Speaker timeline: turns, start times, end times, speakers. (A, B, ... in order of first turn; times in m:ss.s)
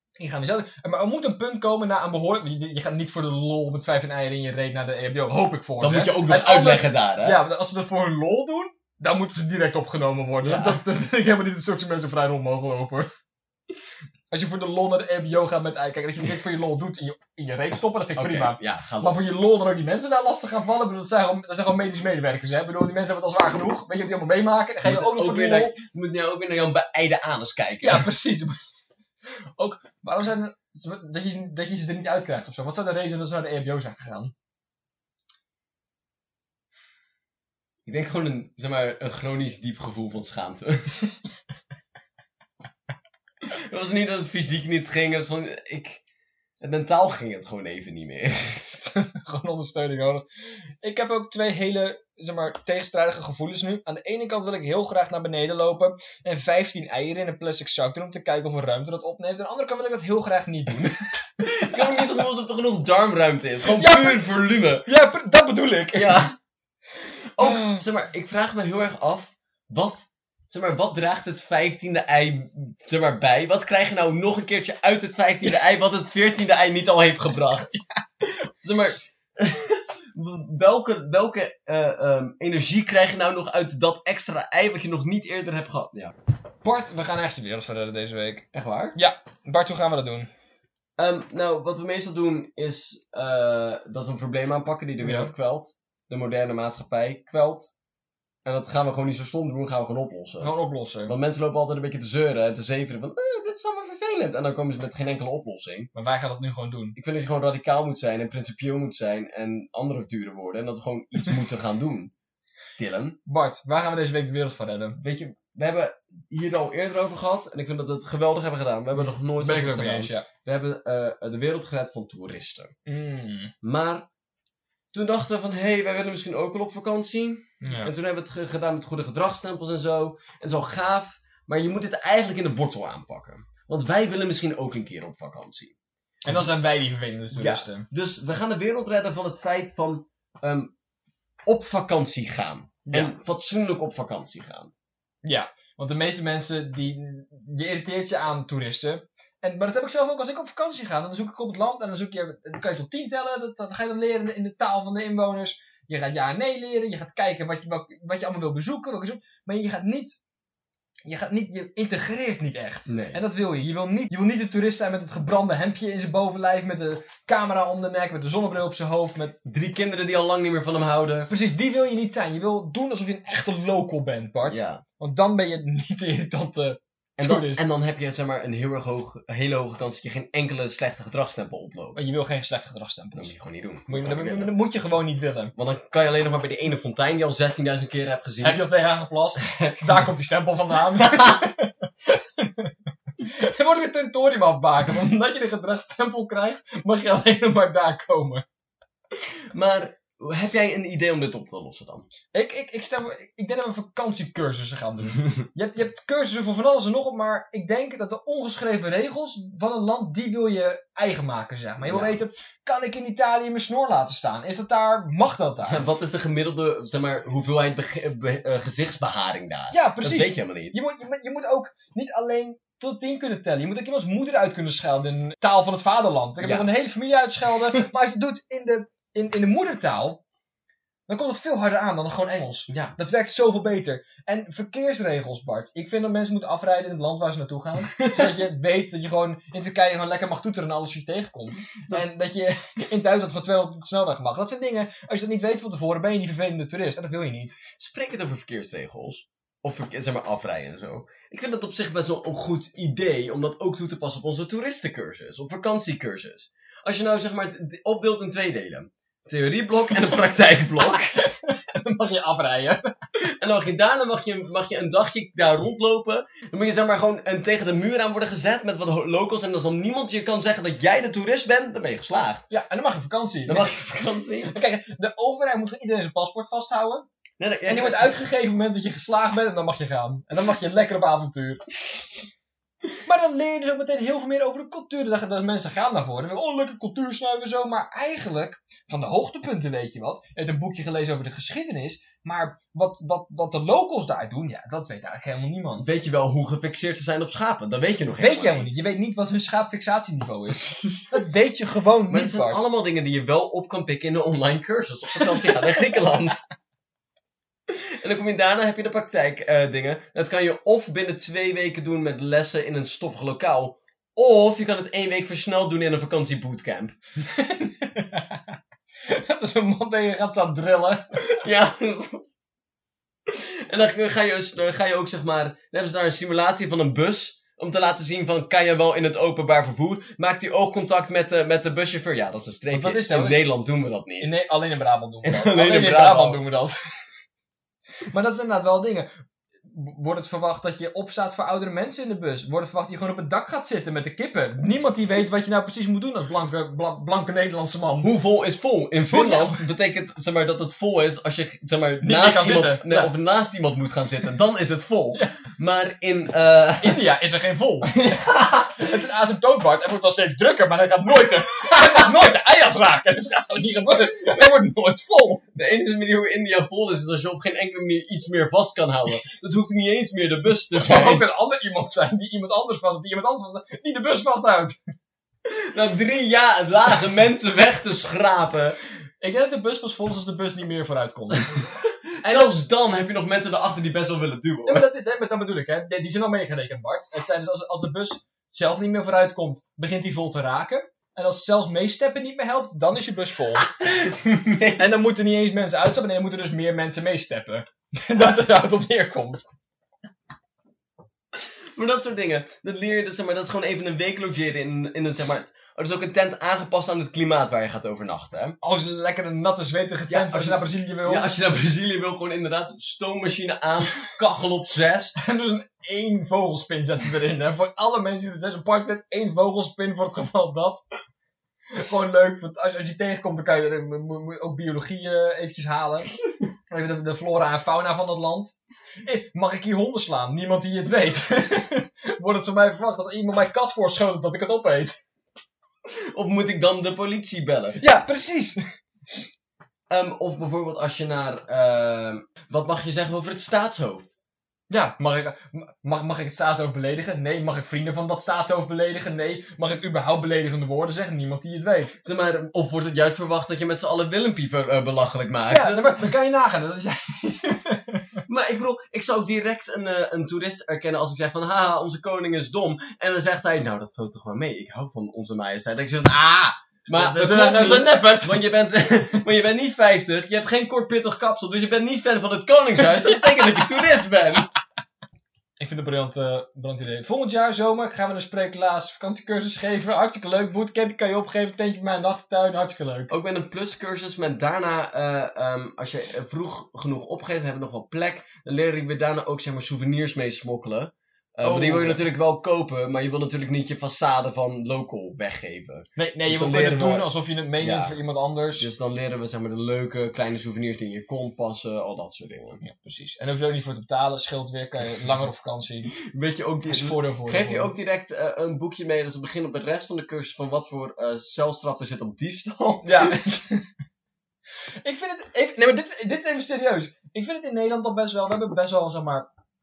0:00.2-0:13.1 A
0:05.8-0:07.4 B
0:10.4-0:10.8 B
0:14.3-0:25.7 A
0:18.2-0:19.2 B
0:24.8-0:28.1 B
0:27.8-0:28.6 A
0:29.6-0:34.3 A
0:37.9-0:41.0 B
0:43.5-0:46.0 B
0:46.6-0:48.8 B
0:48.7-0:50.2 A
0:50.8-1:01.0 A
1:01.4-1:04.9 B
1:01.7-1:02.1 A
1:03.7-1:04.3 A
1:04.8-1:06.3 A
1:05.9-1:06.3 B
1:07.3-1:26.1 B
1:07.4-1:07.8 A
1:26.6-1:30.3 A
1:28.5-1:29.0 B
1:31.0-1:37.7 B
1:35.0-1:35.3 A
1:38.4-1:40.5 B
1:40.4-1:41.1 A
1:41.1-1:45.9 B
1:46.0-1:47.0 A
1:47.0-1:52.1 B
1:52.8-1:53.2 B
1:53.3-1:55.0 A
1:55.0-2:02.7 B
1:59.0-2:00.3 A
2:02.9-2:03.5 A
2:03.6-2:04.1 B
2:04.9-2:15.8 B
2:07.6-2:07.9 A
2:16.2-2:17.9 A
2:17.3-2:20.7 B
2:21.5-2:24.7 B
2:22.9-2:23.1 A
2:25.2-2:40.2 A
2:41.0-2:49.4 A
2:42.9-2:43.2 B
2:49.4-2:51.3 B
2:51.3-2:57.6 A
2:54.5-2:54.8 B
2:57.2-3:02.0 B
3:02.0-3:03.3 A
3:03.2-3:04.5 B
3:03.9-3:05.5 A
3:05.6-3:08.6 B
3:08.4-3:18.4 A
3:09.4-3:10.0 B
3:11.0-3:11.4 B
3:19.5-3:22.1 B
3:22.3-3:35.8 A
3:31.8-3:32.1 B
3:35.7-3:40.8 B
3:39.7-3:50.2 A
3:46.4-3:46.7 B
3:51.1-4:07.6 A
3:52.7-3:53.0 B
3:57.9-3:58.3 B
4:01.8-4:02.0 B
4:07.8-4:21.2 B
4:20.8-4:22.8 A
4:23.2-4:32.5 B
4:32.5-4:33.8 A
4:33.5-4:34.6 B
4:34.5-4:37.1 A
4:37.4-4:38.2 B
4:37.7-4:41.6 A
4:43.0-4:55.9 A
4:55.8-4:58.7 B
4:58.2-5:02.6 A
5:02.1-5:06.4 B
5:05.5-5:06.0 A
5:07.7-5:17.0 B
5:17.2-5:18.5 A
5:19.0-5:21.2 A
5:21.4-5:22.2 B
5:23.3-5:34.3 B
5:32.7-5:33.4 A
5:34.2-5:36.8 A
5:35.2-5:36.4 B
5:38.1-5:39.1 A
5:39.6-5:48.1 A
5:48.0-5:57.0 B
5:49.1-5:49.6 A
5:52.0-5:53.1 A
5:56.8-6:05.4 A
5:58.2-5:58.7 B
6:05.6-6:11.2 B
6:10.7-6:14.8 A
6:15.5-6:18.8 B
6:19.2-6:21.7 A
6:21.5-6:24.9 B
6:22.2-6:22.6 A
6:24.7-6:33.7 A
6:33.7-6:35.0 B
6:34.8-6:39.5 A
6:41.4-6:48.6 B
6:48.6-6:51.4 A
6:50.1-6:55.2 B
6:55.2-7:00.8 A
7:01.7-7:06.1 A
7:06.7-7:15.0 A
7:15.9-7:17.8 B
7:17.8-7:18.6 A
7:19.9-7:24.2 B
7:24.7-7:32.0 A
7:32.0-7:36.1 B
7:35.5-7:38.2 A
7:38.3-7:54.5 B
7:46.9-7:48.4 A
7:53.0-7:53.4 A
7:55.6-8:03.1 A
8:03.1-8:17.1 B
8:11.4-8:12.0 A
8:16.0-8:18.7 A
8:17.6-8:18.0 B
8:18.6-8:22.6 B
8:22.6-8:26.0 A
8:26.0-8:33.2 B
8:26.7-8:27.7 A
8:32.8-8:33.7 A
8:34.8-8:39.3 A